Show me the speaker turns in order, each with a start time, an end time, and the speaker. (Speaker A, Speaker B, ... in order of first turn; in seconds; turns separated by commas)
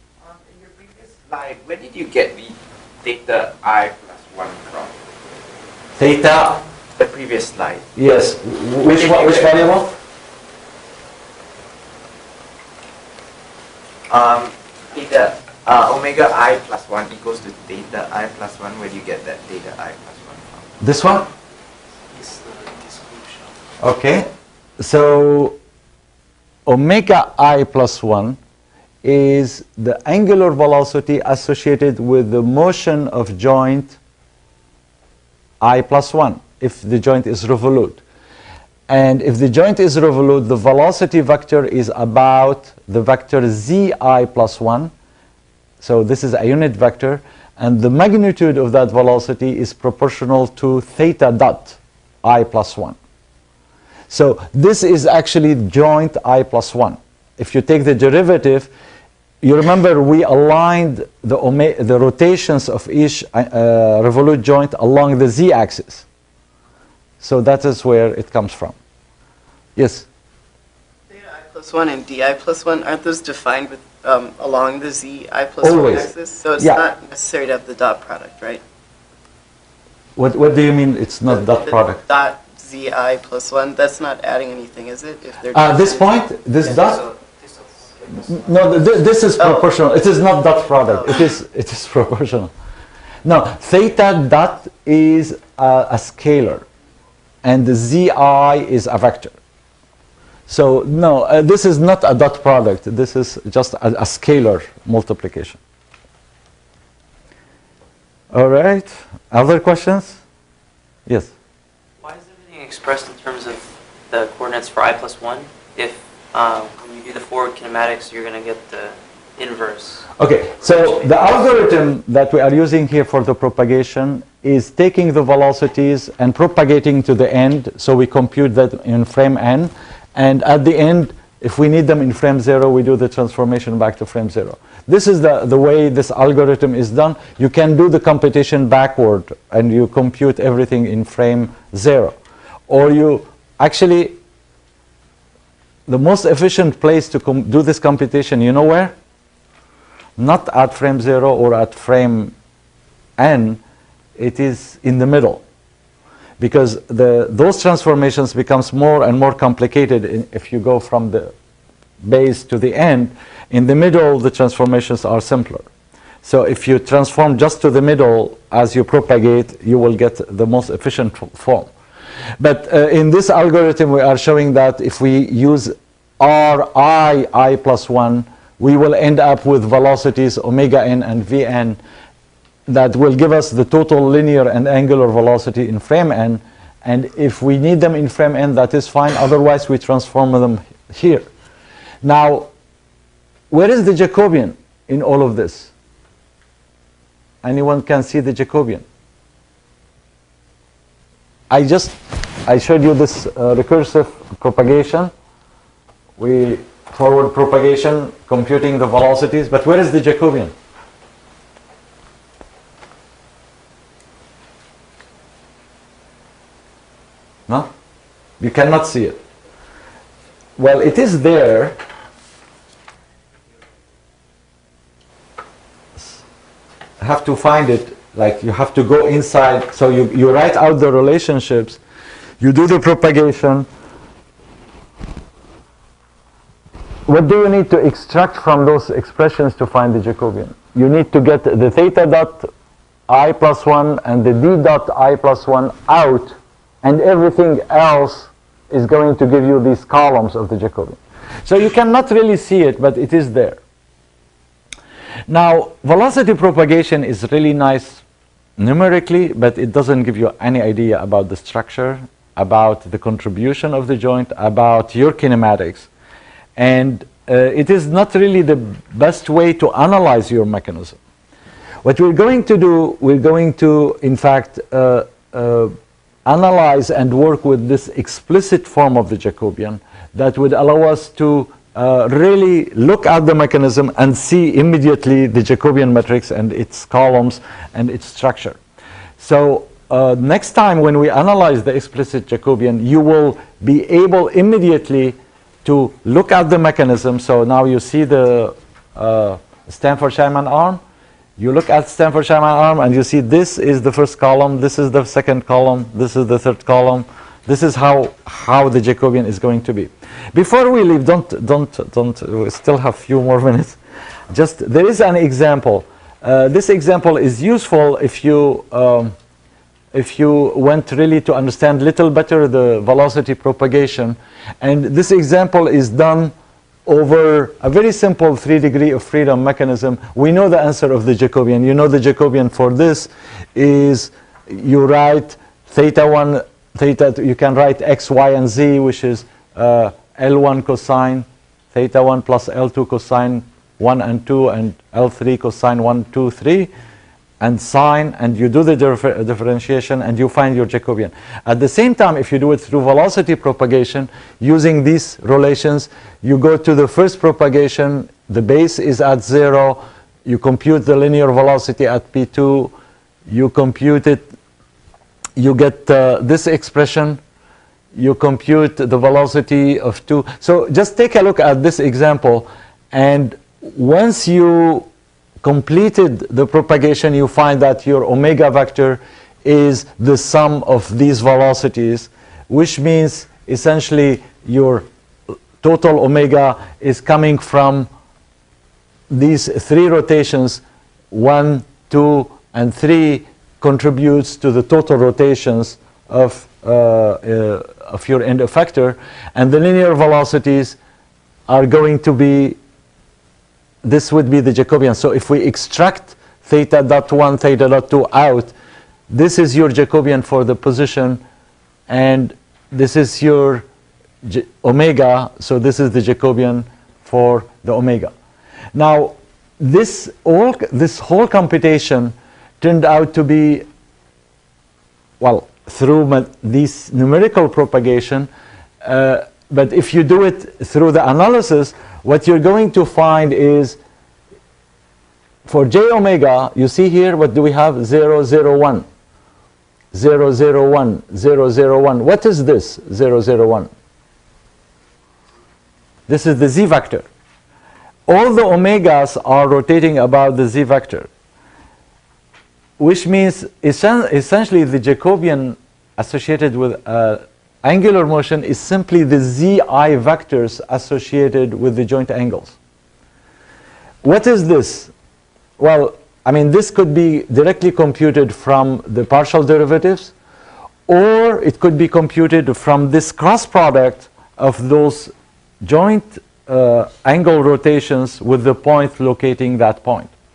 Speaker A: 0.2-5.0, Speaker B: 6.0-6.6, Speaker A: 7.0-7.9, Speaker B: 8.0-9.9, Speaker A: 8.9-9.7, Speaker A: 14.1-20.6, Speaker B: 20.8-21.3, Speaker C: 22.1-23.5, Speaker B: 23.8-24.3, Speaker B: 24.8-25.6, Speaker B: 26.7-28.4, Speaker B: 29.0-34.0, Speaker B: 35.6-38.0, Speaker B: 38.9-44.9, Speaker B: 45.8-53.0, Speaker B: 54.1-58.7, Speaker B: 59.4-66.0, Speaker B: 67.2-68.8, Speaker B: 69.8-70.1, Speaker D: 71.1-78.6, Speaker B: 75.6-76.8, Speaker B: 80.2-82.0, Speaker D: 81.3-86.2, Speaker B: 85.5-87.0, Speaker C: 87.2-88.4, Speaker B: 88.3-92.5, Speaker D: 89.4-89.7, Speaker B: 93.2-96.7, Speaker B: 97.4-99.4, Speaker B: 100.5-105.6, Speaker B: 108.3-110.2, Speaker C: 112.0-120.1, Speaker B: 120.2-142.2, Speaker C: 120.7-121.4, Speaker B: 142.7-144.2, Speaker B: 145.9-148.9, Speaker B: 150.2-152.3, Speaker B: 153.2-153.6, Speaker B: 154.2-155.4, Speaker B: 156.4-161.3, Speaker B: 162.0-165.7, Speaker B: 166.2-171.7, Speaker B: 172.4-181.8, Speaker B: 182.7-191.3, Speaker B: 192.0-192.5, Speaker B: 193.5-195.7, Speaker B: 197.4-198.8, Speaker B: 201.5-205.1, Speaker B: 206.2-210.5, Speaker B: 218.4-219.2, Speaker B: 220.6-221.8, Speaker B: 227.0-231.8, Speaker B: 232.4-233.7, Speaker B: 237.1-242.5, Speaker B: 243.1-253.6, Speaker B: 255.3-258.0, Speaker B: 258.6-265.9, Speaker B: 266.6-271.0, Speaker B: 271.8-275.7, Speaker B: 276.3-288.6, Speaker B: 289.2-300.8, Speaker B: 301.4-313.8, Speaker B: 314.3-319.1, Speaker B: 319.9-326.3, Speaker B: 326.9-346.7, Speaker B: 347.4-362.7, Speaker B: 363.3-364.3, Speaker B: 365.4-367.2, Speaker B: 367.9-374.9, Speaker B: 375.4-384.9, Speaker B: 385.6-387.9, Speaker B: 389.1-400.8, Speaker B: 401.5-402.6, Speaker B: 403.8-408.5, Speaker B: 409.1-411.2, Speaker B: 411.9-413.6, Speaker B: 414.2-418.1, Speaker B: 418.8-423.6, Speaker B: 425.2-428.3, Speaker B: 428.8-433.8, Speaker B: 435.5-438.9, Speaker B: 439.9-443.7, Speaker B: 446.1-447.1, Speaker B: 448.1-451.1, Speaker B: 452.8-462.6, Speaker B: 464.0-464.9, Speaker B: 465.6-470.1, Speaker B: 470.9-475.1, Speaker B: 475.6-480.1